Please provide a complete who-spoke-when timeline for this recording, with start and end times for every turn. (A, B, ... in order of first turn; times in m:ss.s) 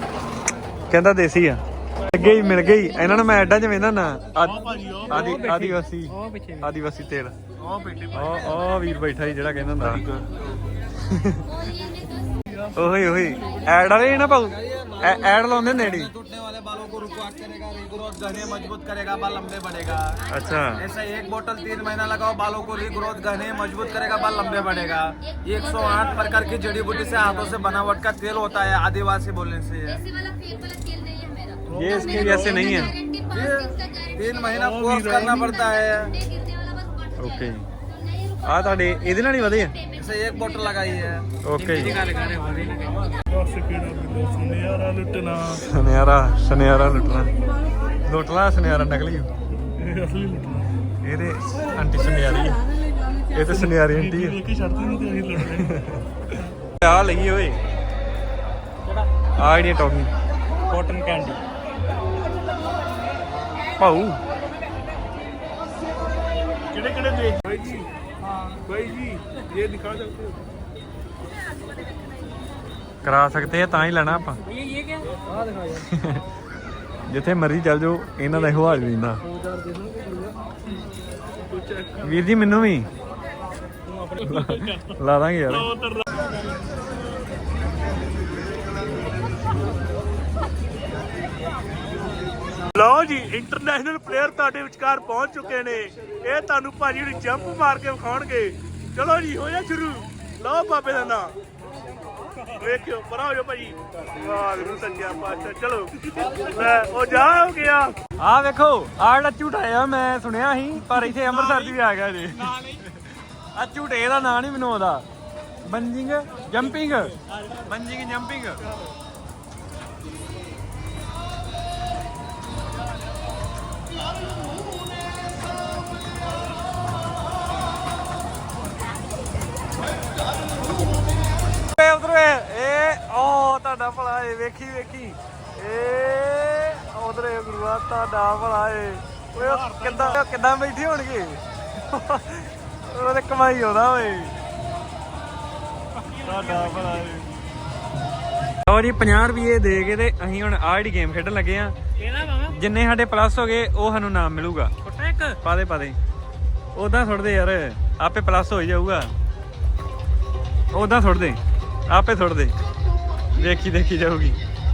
0:00.9-0:07.4 A
0:04.4-0:05.5 B
0:05.1-0:06.7 C
0:07.6-0:08.4 B
0:08.1-0:10.1 A
0:09.9-0:10.2 B
0:11.0-0:11.4 A
0:12.7-0:16.1 A
0:14.4-0:20.2 D
0:20.3-0:20.8 A
0:20.8-0:30.1 D
0:31.7-0:32.9 B
0:31.7-0:33.0 A
0:33.3-0:36.2 D
0:34.5-0:35.6 B
0:37.2-0:37.7 A
0:38.4-0:39.8 A
0:40.0-0:42.9 D
0:41.4-0:42.0 A
0:42.1-0:43.1 C
0:43.3-0:45.6 B
0:45.5-0:47.3 A
0:48.0-0:49.3 A
0:49.8-0:50.7 B
0:51.0-0:52.6 A
0:53.3-0:54.4 A
0:53.5-0:55.8 B
0:55.4-0:56.0 A
0:56.8-0:57.6 A
0:59.4-1:00.1 A
1:00.7-1:01.4 C
1:03.8-1:04.2 A
1:06.7-1:07.9 B
1:08.6-1:10.4 B
1:13.0-1:14.4 A
1:14.5-1:15.2 C
1:15.8-1:16.2 A
1:17.1-1:19.2 A
1:21.5-1:22.1 B
1:22.0-1:22.9 A
1:23.9-1:24.4 C
1:24.2-1:25.7 A
1:25.5-1:26.3 B
1:32.7-1:41.4 B
1:42.5-1:48.0 B
1:48.2-1:52.8 A
1:53.6-1:55.0 A
1:55.6-1:58.6 A
2:11.6-2:24.4 A
2:25.9-2:27.0 C
2:26.2-2:27.3 A
2:28.6-2:31.8 A
2:32.0-2:32.6 C
2:32.5-2:34.7 A
2:34.8-2:35.4 C
2:35.4-2:36.0 A
2:36.8-2:39.1 A
2:40.7-2:42.6 A
2:43.4-2:44.4 A